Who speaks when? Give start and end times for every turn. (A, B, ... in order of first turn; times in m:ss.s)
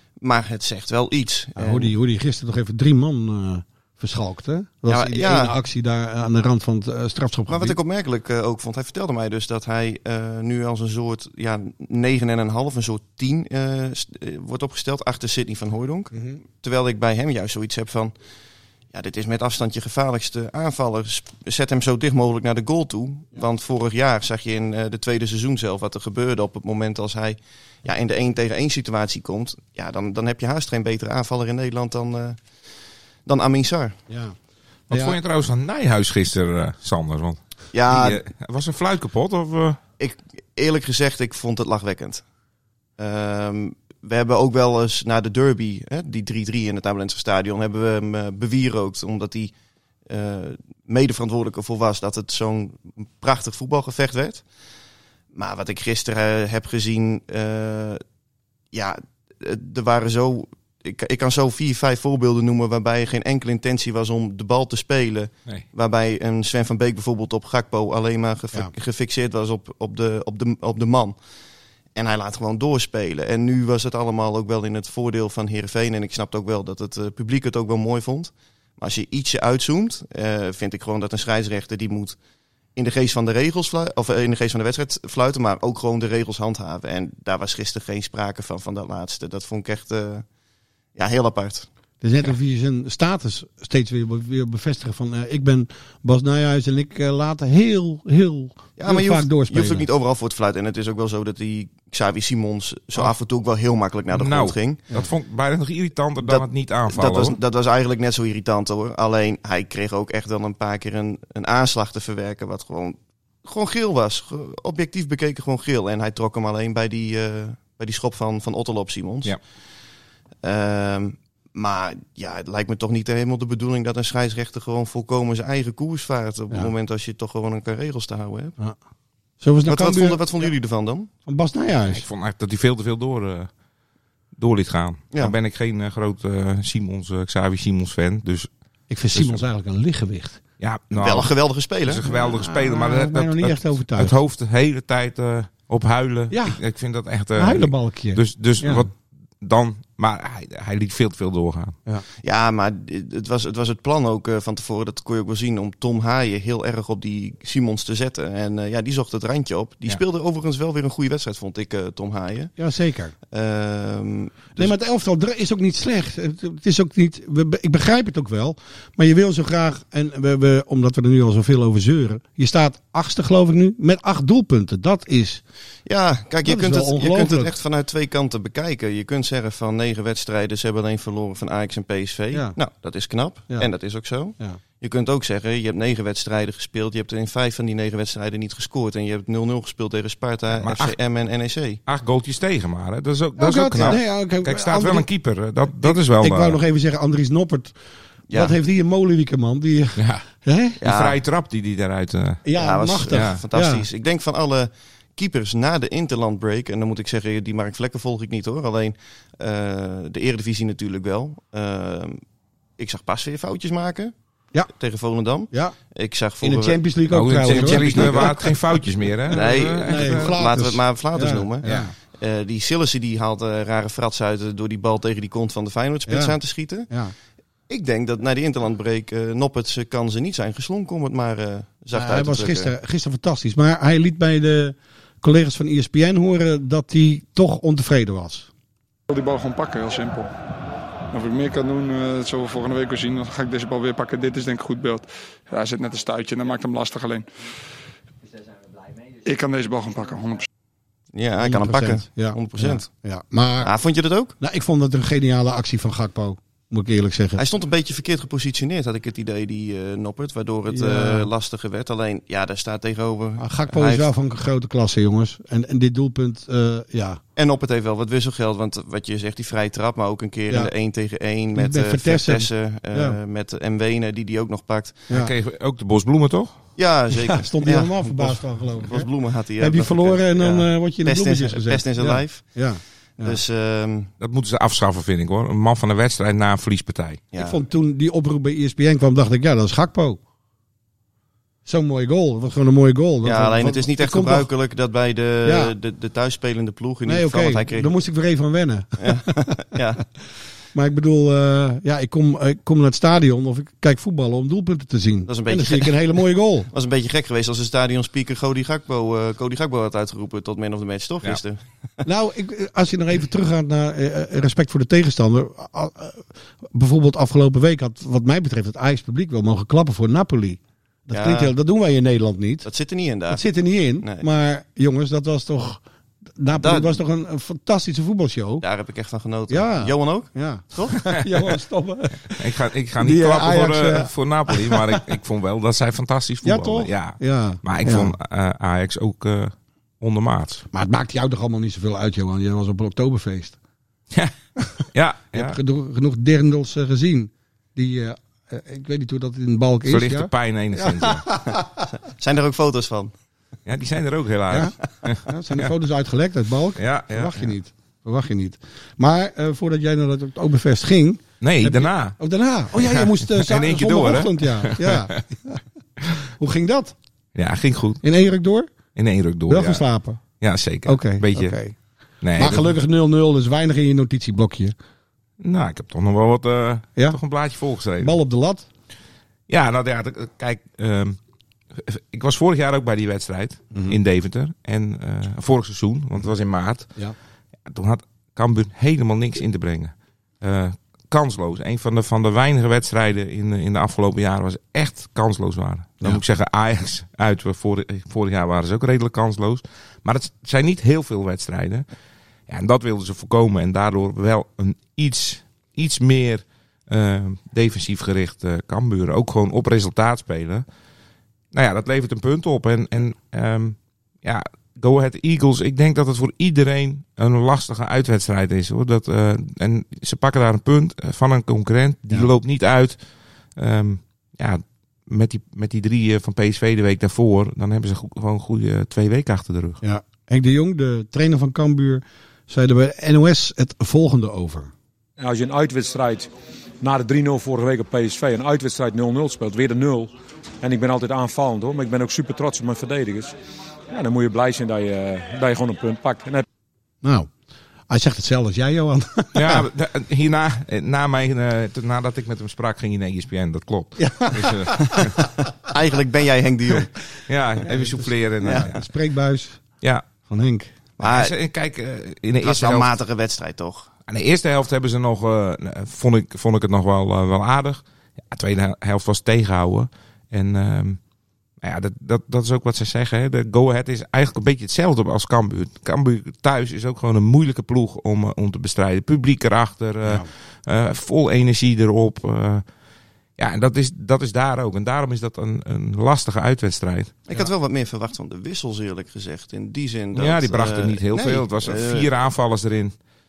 0:00.2-0:01.9 A
0:01.6-0:07.8 B
0:04.9-0:05.6 A
0:07.5-0:18.1 A
0:16.1-0:16.4 B
0:18.9-0:34.0 A
0:34.1-0:34.4 B
0:34.9-0:39.8 C
0:34.9-0:35.2 B
0:37.7-0:38.2 A
0:40.0-0:42.2 A
0:43.0-0:49.5 A
0:50.0-0:54.4 A
0:55.3-0:58.0 A
0:58.7-1:11.2 A
1:11.9-1:22.2 A
1:22.8-1:30.2 A
1:30.9-1:31.7 A
1:32.0-1:39.8 B
1:38.8-1:44.9 A
1:44.1-1:47.4 C
1:46.2-1:59.4 A
2:00.4-2:08.5 A
2:09.4-2:10.5 B
2:09.7-2:11.1 A
2:11.2-2:12.0 B
2:11.9-2:13.5 C
2:14.3-2:18.5 C
2:18.9-2:20.4 B
2:19.1-2:19.4 C
2:20.6-2:31.8 C
2:20.9-2:22.0 A
2:22.0-2:24.2 B
2:26.3-2:26.6 B
2:27.3-2:28.9 B
2:32.2-2:42.6 A
2:42.6-2:43.1 B
2:43.3-2:44.7 A
2:44.6-2:55.4 B
2:55.8-3:11.8 A
2:56.4-2:57.5 B
3:04.3-3:04.6 B
3:10.5-3:11.0 C
3:11.8-3:16.6 C
3:13.4-3:15.1 B
3:13.7-3:14.0 A
3:15.7-3:20.8 B
3:20.0-3:20.2 C
3:20.8-3:22.4 C
3:20.8-3:21.2 A
3:22.4-3:23.8 B
3:22.6-3:32.2 A
3:23.1-3:23.4 C
3:32.8-3:34.1 A
3:34.7-3:38.4 A
3:35.5-3:35.8 B
3:36.4-3:38.6 B
3:37.1-3:40.4 C
3:39.3-3:47.1 A
3:39.3-3:41.9 B
3:41.6-3:41.9 C
3:46.1-3:47.1 B
3:47.7-3:52.7 A
3:51.9-3:58.5 B
3:59.1-4:00.3 D
4:01.1-4:07.3 D
4:09.2-4:10.5 D
4:11.1-4:13.0 A
4:11.4-4:13.7 B
4:13.6-4:14.4 A
4:14.4-4:17.4 B
4:17.4-4:24.1 A
4:20.7-4:21.3 B
4:23.4-4:27.2 B
4:27.4-4:35.1 A
4:31.5-4:33.2 B
4:35.1-4:36.6 C
4:36.8-4:44.1 A
4:37.2-4:43.4 B
4:44.2-4:47.2 C
4:47.3-4:47.6 A
4:47.4-4:50.2 B
4:51.6-4:54.5 B
4:53.2-4:57.9 A
4:55.4-4:55.7 B
4:57.0-4:59.5 B
4:59.0-5:00.0 A
5:00.7-5:06.7 B
5:05.3-5:06.0 A
5:06.7-5:11.6 A
5:12.0-5:22.7 B
5:21.1-5:21.5 A
5:22.6-5:24.2 A
5:23.3-5:25.8 B
5:26.3-5:28.6 B
5:26.6-5:27.0 A
5:28.6-5:31.2 A
5:29.5-5:32.4 B
5:32.3-5:40.6 C
5:33.0-5:35.0 B
5:36.4-5:38.1 B
5:40.7-5:43.6 B
5:44.8-5:51.8 B
5:44.9-5:45.6 C
5:49.9-5:51.3 C
5:52.0-5:53.1 A
5:53.6-5:55.7 C
5:54.5-6:05.6 B
5:56.8-5:57.5 C
6:01.4-6:02.2 C
6:02.7-6:05.0 C
6:06.4-6:07.0 B
6:07.3-6:08.0 C
6:08.0-6:08.7 B
6:08.9-6:11.6 C
6:09.5-6:10.2 B
6:10.8-6:14.7 B
6:12.2-6:12.8 C
6:15.4-6:18.2 C
6:18.0-6:18.7 B
6:19.5-6:21.2 C
6:21.7-6:27.1 C
6:23.7-6:24.0 B
6:27.6-6:41.9 C
6:42.5-6:50.6 C
6:51.5-7:09.8 C
7:09.8-7:14.7 B
7:15.2-7:23.4 E
7:23.9-7:26.4 E
7:27.0-7:27.4 B
7:27.9-7:29.6 B
7:29.3-7:35.2 C
7:34.0-7:35.1 B
7:35.6-7:36.9 A
7:37.3-7:38.8 C
7:37.6-7:40.7 B
7:38.4-7:38.7 A
7:41.0-7:41.4 A
7:41.0-7:42.9 C
7:42.4-7:43.9 A
7:44.1-7:51.0 C
7:51.6-8:02.7 C
8:00.0-8:00.3 B
8:03.4-8:07.2 C
8:07.3-8:12.1 A
8:10.1-8:13.0 C